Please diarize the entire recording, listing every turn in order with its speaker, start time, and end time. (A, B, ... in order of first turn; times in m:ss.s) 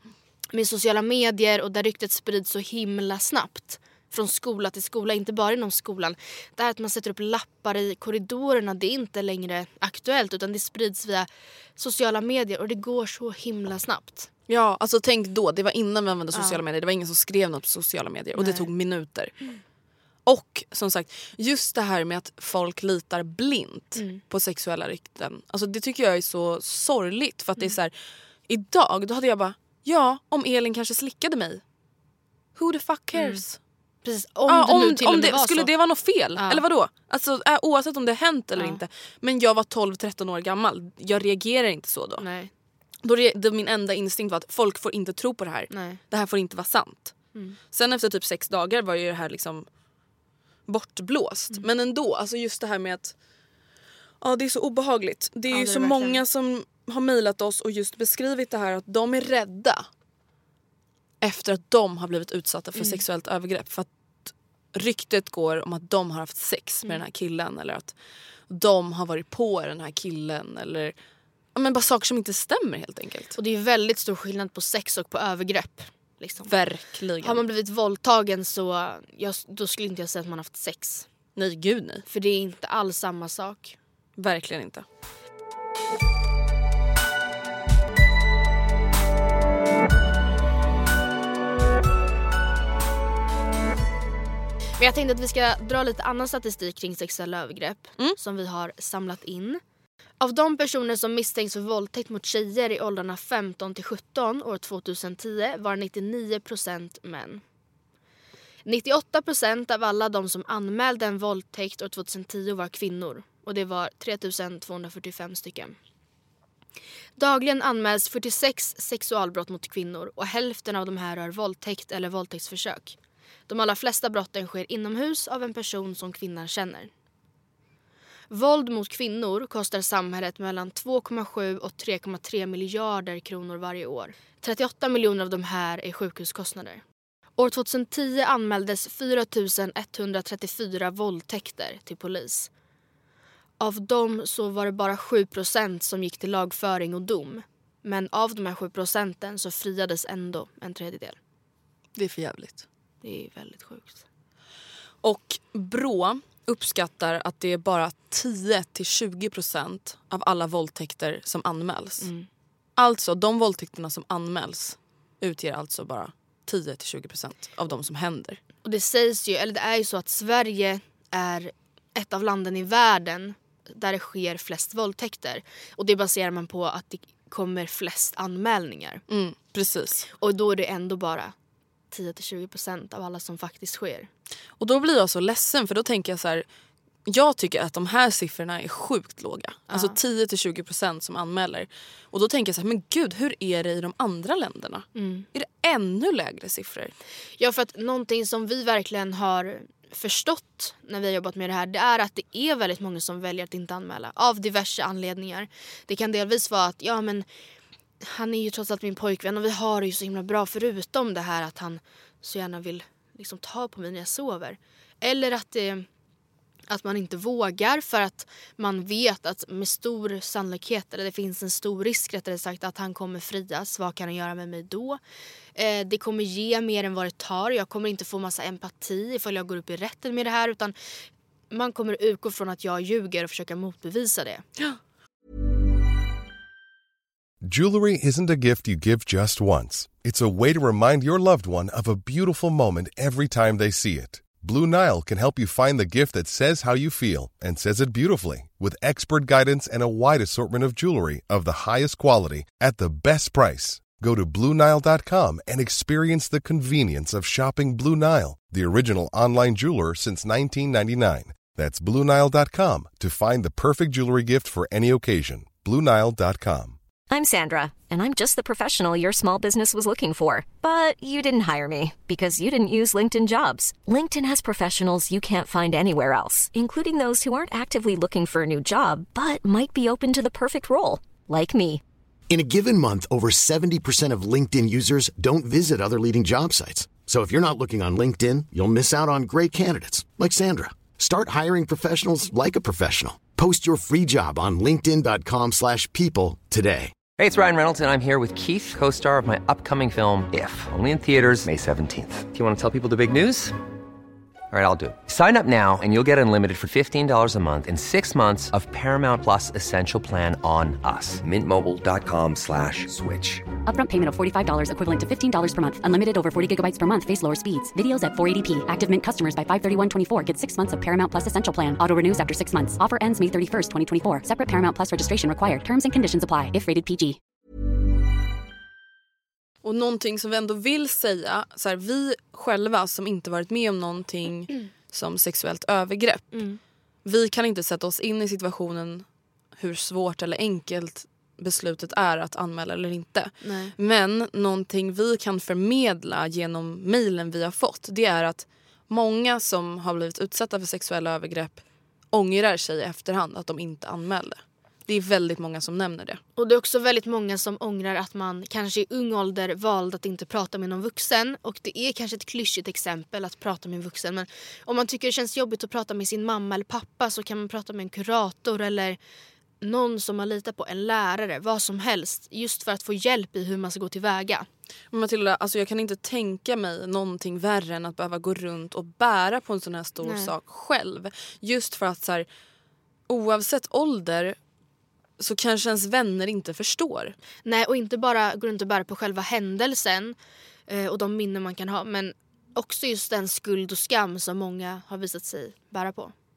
0:00.5-0:14.3 A
0:14.5-0:19.3 B
0:16.3-0:16.6 A
0:18.4-0:18.7 A
0:20.3-0:27.9 B
0:24.0-0:24.2 A
0:28.5-0:31.6 B
0:32.6-0:33.6 B
0:33.2-0:33.4 A
0:34.0-0:35.7 A
0:34.5-0:42.3 B
0:38.6-0:38.8 A
0:42.2-0:42.5 A
0:43.0-0:47.2 B
0:45.7-0:46.0 A
0:47.7-0:49.7 B
0:50.7-0:53.1 B
0:54.2-0:59.8 B
0:55.5-0:56.2 A
1:01.2-1:08.0 B
1:02.8-1:03.0 A
1:08.5-1:11.0 B
1:11.6-1:13.4 B
1:13.4-1:16.5 A
1:16.5-1:17.4 B
1:17.2-1:21.1 A
1:21.4-1:22.0 B
1:22.1-1:23.8 A
1:24.2-1:24.8 B
1:34.8-1:39.6 A
1:40.2-1:47.4 A
1:48.6-1:55.8 A
1:57.2-2:03.0 A
2:03.5-2:06.9 A
2:08.3-2:16.8 A
2:17.4-2:22.5 A
2:23.6-2:31.2 A
2:32.0-2:32.6 B
2:33.0-2:34.0 A
2:35.0-2:42.1 B
2:42.0-2:42.3 A
2:42.8-2:48.4 B
2:48.6-2:59.0 A
2:59.1-3:00.1 B
3:00.1-3:01.3 A
3:01.9-3:04.1 A
3:04.6-3:06.4 B
3:07.1-3:17.0 B
3:09.7-3:10.0 A
3:15.0-3:15.3 A
3:17.4-3:27.3 A
3:28.0-3:35.9 A
3:36.7-3:45.0 A
3:45.6-3:50.8 A
3:51.5-3:54.5 A
3:57.4-4:26.8 C
4:27.1-4:41.8 D
4:42.3-4:57.0 E
4:57.2-5:03.6 F
5:04.5-5:13.5 F
5:13.6-5:27.2 G
5:29.6-5:36.4 B
5:36.3-5:36.6 A
5:37.0-5:39.0 B
5:39.6-5:56.2 B
5:43.4-5:43.8 A
5:56.4-6:09.0 A
6:09.6-6:14.5 A
6:14.9-6:22.3 B
6:20.0-6:20.3 A
6:23.1-6:24.4 B
6:25.2-6:27.2 B
6:27.4-6:30.2 A
6:30.7-6:36.1 A